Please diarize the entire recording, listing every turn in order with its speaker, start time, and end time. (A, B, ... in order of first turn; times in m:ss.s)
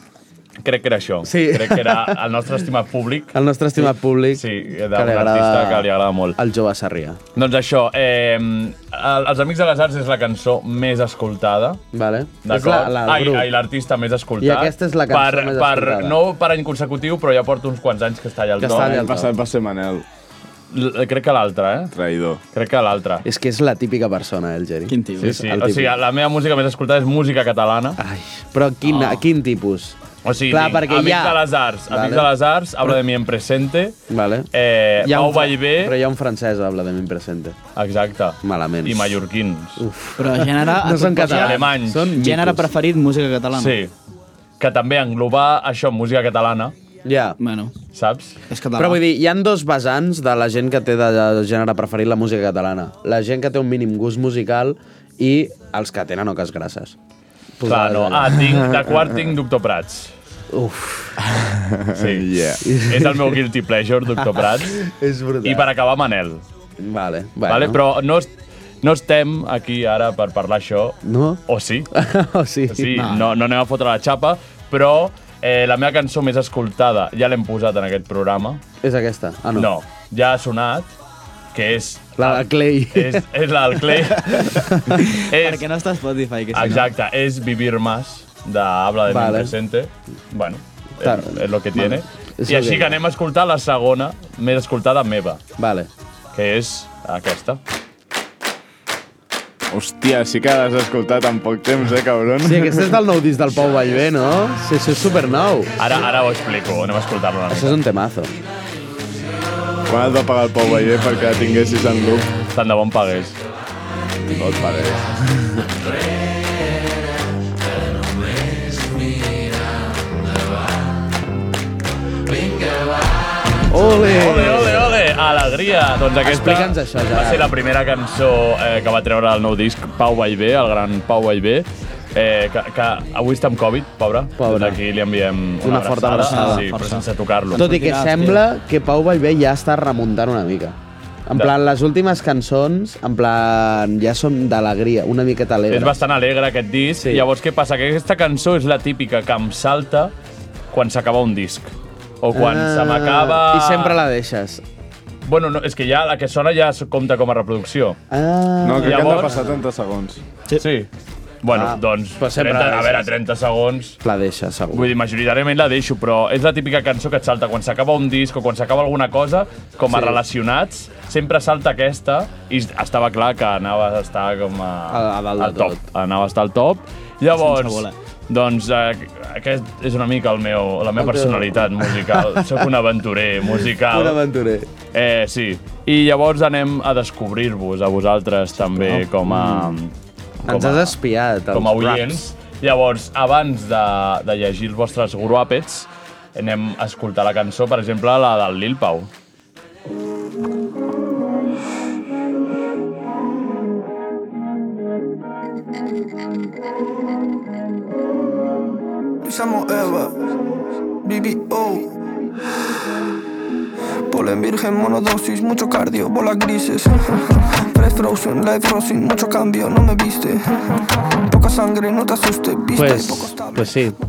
0:00.6-0:06.4 A
0:01.2-0:02.2 B
0:03.3-0:07.2 B
0:07.4-0:11.8 A
0:11.9-0:13.5 B
0:12.4-0:19.1 A
0:14.4-0:16.2 B
0:18.6-0:19.3 B
0:18.6-0:20.0 C
0:20.7-0:21.9 A
0:21.9-0:22.4 C
0:22.5-0:23.2 A
0:23.2-0:26.0 B
0:24.9-0:25.4 D
0:25.2-0:28.0 A
0:28.0-0:32.3 B
0:28.8-0:29.2 A
0:30.2-0:34.0 A
0:34.1-0:37.6 B
0:34.5-0:36.0 A
0:37.8-0:39.8 A
0:38.4-0:39.2 B
0:39.8-0:42.7 B
0:40.2-0:43.8 D
0:41.2-0:42.2 A
0:43.5-0:43.9 A
0:44.6-0:46.7 A
0:47.0-0:47.4 B
0:47.4-0:47.7 D
0:47.9-0:48.4 A
0:48.5-0:49.0 D
0:48.8-0:56.9 B
0:57.6-0:58.4 B
0:57.6-1:00.1 A
1:00.5-1:01.2 B
1:01.2-1:02.6 C
1:01.9-1:04.8 A
1:02.6-1:03.4 B
1:04.3-1:05.7 B
1:05.4-1:06.4 A
1:06.8-1:07.8 B
1:07.5-1:08.3 A
1:08.8-1:11.9 A
1:11.0-1:13.1 B
1:12.7-1:18.6 A
1:13.0-1:13.2 D
1:18.8-1:19.7 B
1:19.5-1:20.9 A
1:21.5-1:25.6 A
1:22.2-1:23.2 B
1:23.8-1:25.1 B
1:25.3-1:26.8 D
1:26.5-1:35.4 A
1:29.1-1:29.5 B
1:31.0-1:33.0 B
1:35.6-1:35.9 B
1:36.3-1:37.6 A
1:39.7-1:42.9 C
1:42.4-1:45.7 B
1:45.8-1:47.8 A
1:47.5-1:48.4 B
1:49.9-1:52.3 C
1:52.5-1:53.4 A
1:54.6-1:54.9 C
2:03.7-2:04.9 B
2:04.0-2:17.6 A
2:06.2-2:07.5 B
2:14.4-2:14.8 B
2:15.6-2:16.7 B
2:16.2-2:18.4 D
2:17.5-2:26.0 B
2:25.7-2:30.1 A
2:27.0-2:27.2 B
2:30.7-2:34.0 A
2:32.3-2:34.6 B
2:35.2-2:38.0 A
2:38.1-2:39.6 B
2:38.6-2:40.2 C
2:38.8-2:39.3 A
2:40.6-2:40.9 A
2:41.4-2:44.0 A
2:41.5-2:43.1 B
2:44.0-2:44.9 B
2:44.7-3:04.2 A
2:49.9-2:50.2 B
2:54.9-2:55.8 B
2:57.3-2:57.9 D
3:01.0-3:02.7 B
3:03.5-3:04.7 B
3:04.9-3:09.9 A
3:08.8-3:09.8 B
3:10.4-3:10.9 A
3:10.4-3:12.2 B
3:11.5-3:19.1 A
3:29.2-3:30.1 E
3:31.0-3:31.9 E
3:34.1-3:43.7 E
3:42.7-3:44.0 B